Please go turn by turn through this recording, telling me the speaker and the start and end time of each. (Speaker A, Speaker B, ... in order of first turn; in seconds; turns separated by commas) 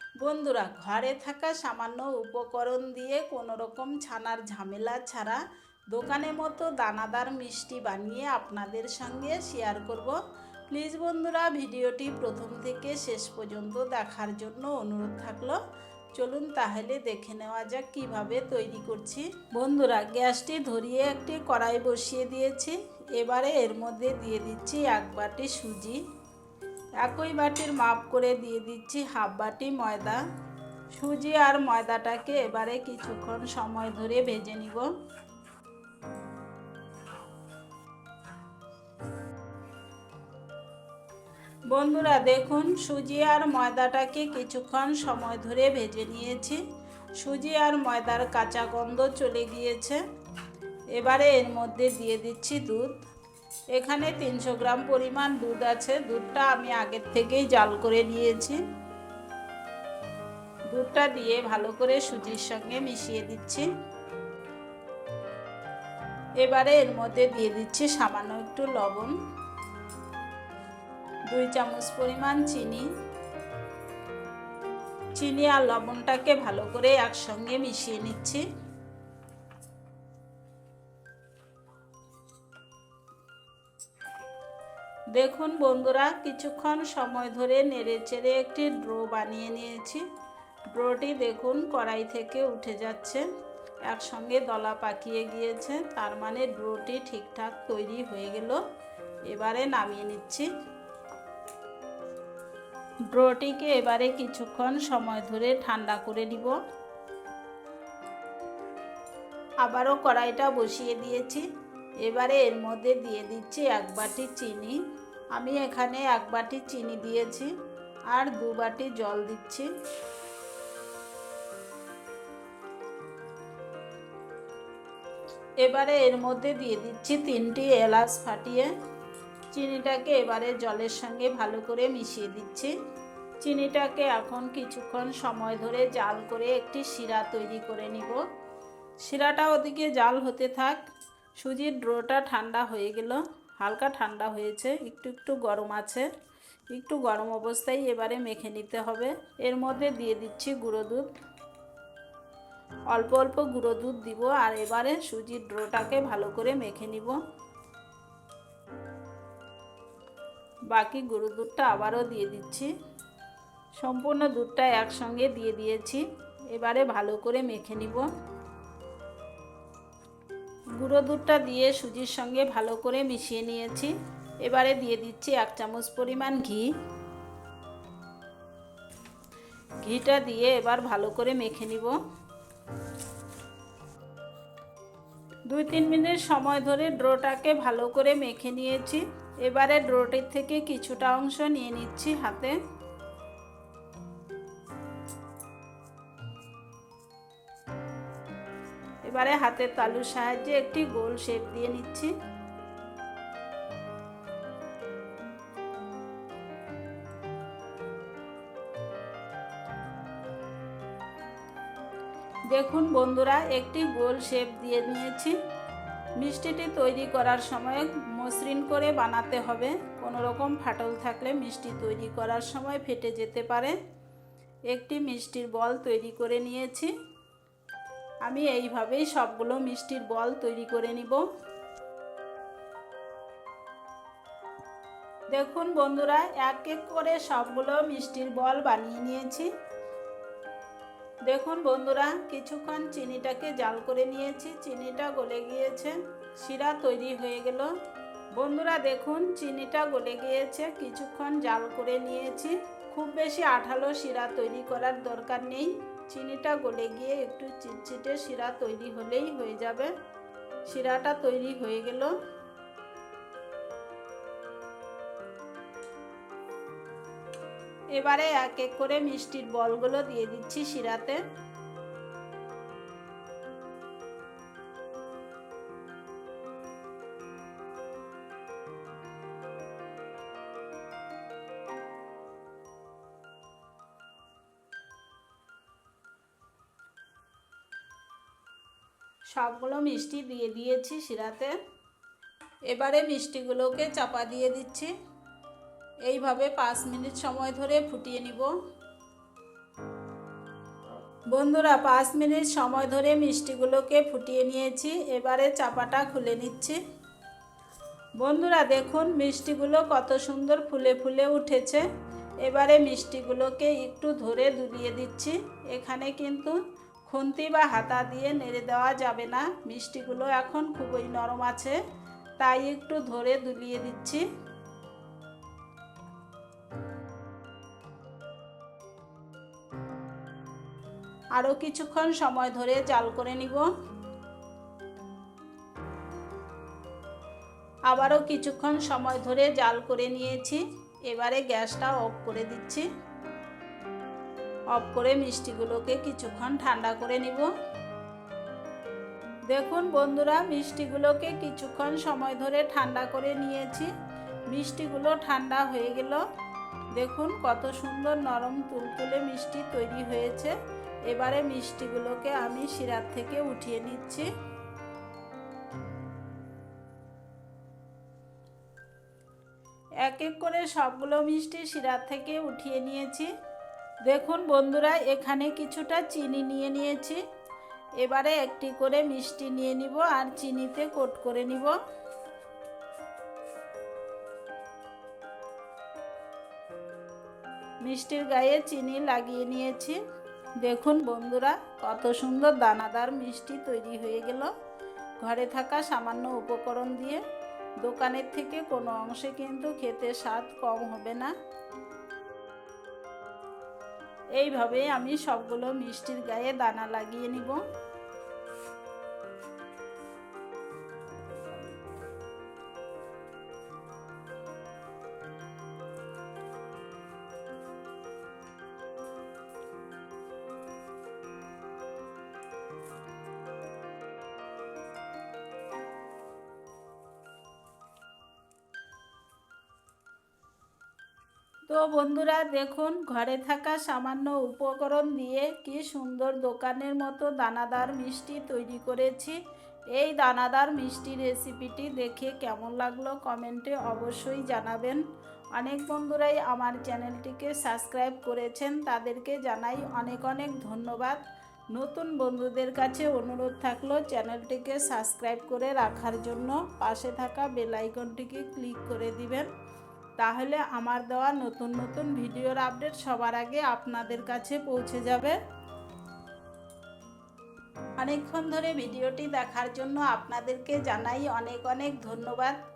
Speaker A: 0.2-10.2, Speaker A: 10.7-15.6, Speaker A: 16.1-26.0, Speaker A: 27.0-30.2, Speaker A: 30.9-34.9, Speaker A: 41.7-46.6, Speaker A: 47.2-50.0, Speaker A: 50.9-53.0, Speaker A: 53.7-58.6, Speaker A: 60.7-63.7, Speaker A: 66.4-69.1, Speaker A: 71.3-72.9, Speaker A: 75.1-78.4, Speaker A: 85.1-90.0, Speaker A: 90.7-93.2, Speaker A: 93.9-98.6, Speaker A: 99.3-100.5, Speaker A: 103.1-106.5, Speaker A: 109.6-111.5, Speaker A: 112.0-114.8, Speaker A: 115.3-117.5, Speaker A: 118.1-119.7, Speaker A: 125.6-128.7, Speaker A: 129.5-132.7, Speaker A: 133.4-138.2, Speaker A: 139.0-140.8, Speaker A: 141.4-146.1, Speaker A: 146.7-151.1, Speaker A: 152.9-157.2, Speaker A: 160.7-162.7, Speaker A: 163.8-168.1, Speaker A: 170.8-176.7, Speaker A: 179.8-181.9, Speaker A: 185.5-192.6, Speaker A: 199.0-202.1, Speaker A: 212.5-215.4, Speaker A: 216.2-223.8, Speaker A: 224.7-226.9, Speaker A: 228.2-231.2, Speaker A: 235.3-239.5, Speaker A: 241.3-247.7, Speaker A: 248.3-259.9, Speaker A: 260.6-262.1, Speaker A: 267.9-271.2, Speaker A: 289.3-291.5, Speaker A: 292.7-294.9, Speaker A: 296.1-298.5, Speaker A: 301.3-306.8, Speaker A: 308.2-311.9, Speaker A: 312.4-321.8, Speaker A: 322.4-324.2, Speaker A: 331.4-333.7, Speaker A: 337.9-342.9, Speaker A: 344.7-347.5, Speaker A: 349.5-353.9, Speaker A: 354.5-356.2, Speaker A: 356.9-360.5, Speaker A: 361.1-364.3, Speaker A: 370.0-373.3, Speaker A: 374.0-377.2, Speaker A: 378.0-381.8, Speaker A: 387.8-390.0, Speaker A: 390.6-394.5, Speaker A: 395.2-397.2, Speaker A: 397.8-401.3, Speaker A: 404.4-407.6, Speaker A: 431.7-439.4, Speaker A: 439.9-445.0, Speaker A: 445.5-459.5, Speaker A: 460.2-465.4, Speaker A: 468.0-472.6